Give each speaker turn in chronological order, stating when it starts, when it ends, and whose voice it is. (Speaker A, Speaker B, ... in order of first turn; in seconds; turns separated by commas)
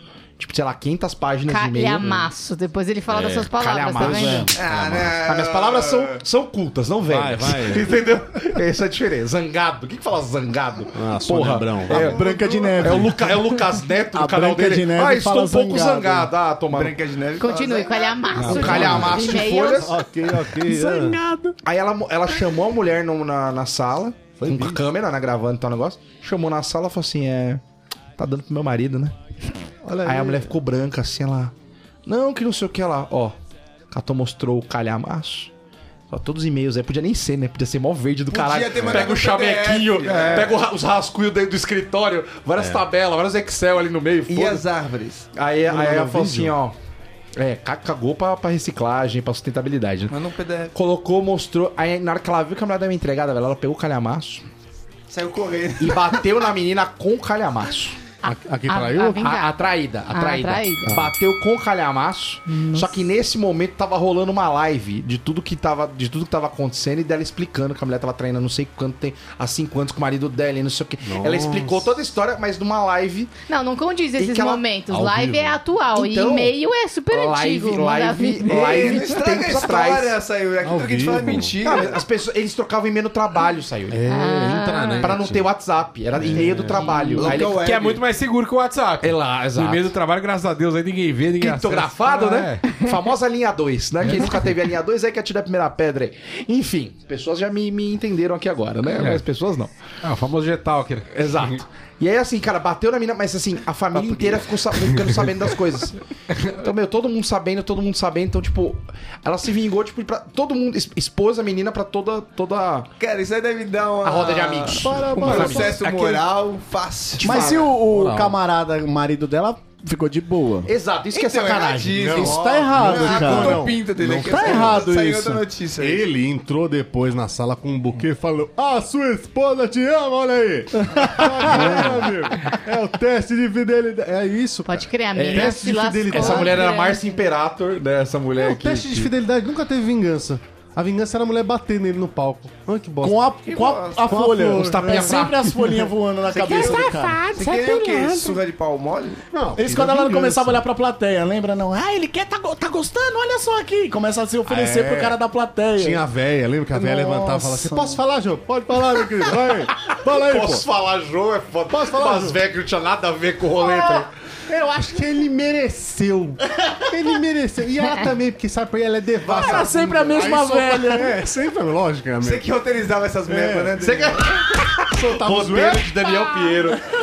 Speaker A: 0.4-2.2, Speaker B: 1.5-4.5, Speaker C: 3.1-3.5, Speaker A: 3.5-4.5, Speaker D: 4.0-4.5, Speaker C: 4.5-5.2, Speaker E: 4.5-6.2, Speaker A: 5.1-17.0, Speaker C: 7.1-8.0, Speaker C: 10.9-12.2, Speaker D: 11.9-13.6, Speaker E: 12.1-12.8, Speaker D: 14.1-16.3, Speaker E: 16.7-18.6, Speaker B: 17.4-19.9, Speaker A: 18.3-19.9, Speaker F: 18.4-19.1, Speaker C: 18.6-21.2, Speaker D: 20.7-21.5, Speaker A: 21.6-27.6, Speaker C: 24.4-24.8, Speaker A: 28.2-29.1, Speaker C: 29.8-30.5, Speaker A: 30.0-31.5, Speaker A: 32.0-33.3, Speaker A: 33.9-35.5, Speaker A: 36.1-44.6, Speaker E: 38.3-40.6, Speaker C: 42.6-42.9, Speaker E: 44.3-45.3, Speaker A: 45.3-46.7, Speaker C: 45.7-46.5, Speaker A: 47.4-50.1, Speaker E: 50.1-50.7, Speaker A: 50.7-54.4, Speaker E: 55.1-56.2, Speaker A: 55.8-58.0, Speaker C: 58.2-59.3, Speaker B: 58.7-59.5, Speaker A: 59.2-73.3, Speaker B: 60.1-60.9, Speaker C: 60.9-61.1, Speaker B: 62.5-62.9, Speaker C: 71.0-71.9, Speaker B: 73.5-79.0, Speaker A: 74.2-74.6, Speaker C: 74.9-75.6, Speaker A: 75.9-76.5, Speaker A: 77.1-80.2, Speaker E: 78.4-82.0, Speaker C: 80.6-81.6, Speaker A: 81.6-84.0, Speaker C: 83.9-85.5, Speaker B: 84.1-85.1, Speaker A: 85.0-87.6, Speaker C: 86.2-87.1, Speaker E: 87.1-88.0, Speaker F: 87.2-92.6, Speaker A: 89.0-89.9, Speaker A: 91.4-99.7, Speaker F: 94.0-94.4, Speaker F: 99.0-99.2, Speaker F: 100.0-101.5, Speaker A: 101.1-112.9, Speaker E: 113.0-117.7, Speaker A: 114.0-116.2, Speaker C: 114.8-115.5, Speaker D: 115.0-115.6, Speaker A: 117.2-117.7, Speaker D: 117.2-120.7, Speaker C: 117.8-118.4, Speaker A: 120.7-122.3, Speaker E: 121.1-126.1, Speaker C: 121.9-124.9, Speaker D: 122.2-125.4, Speaker C: 125.8-136.6, Speaker D: 131.1-131.8, Speaker B: 134.7-137.2, Speaker A: 135.2-139.1, Speaker C: 138.4-143.3, Speaker D: 143.0-147.3, Speaker E: 143.4-144.2, Speaker C: 144.1-145.0, Speaker A: 144.4-145.9, Speaker E: 146.3-149.2, Speaker B: 146.7-148.4, Speaker C: 149.3-150.6, Speaker D: 149.6-156.0, Speaker C: 154.4-155.2, Speaker C: 155.8-160.6, Speaker D: 156.7-158.0, Speaker A: 159.8-164.1, Speaker C: 161.7-162.4, Speaker C: 164.5-172.5, Speaker E: 169.2-170.2, Speaker D: 169.2-171.2, Speaker E: 172.2-174.3, Speaker C: 173.3-173.9, Speaker A: 173.8-176.8, Speaker C: 174.9-176.2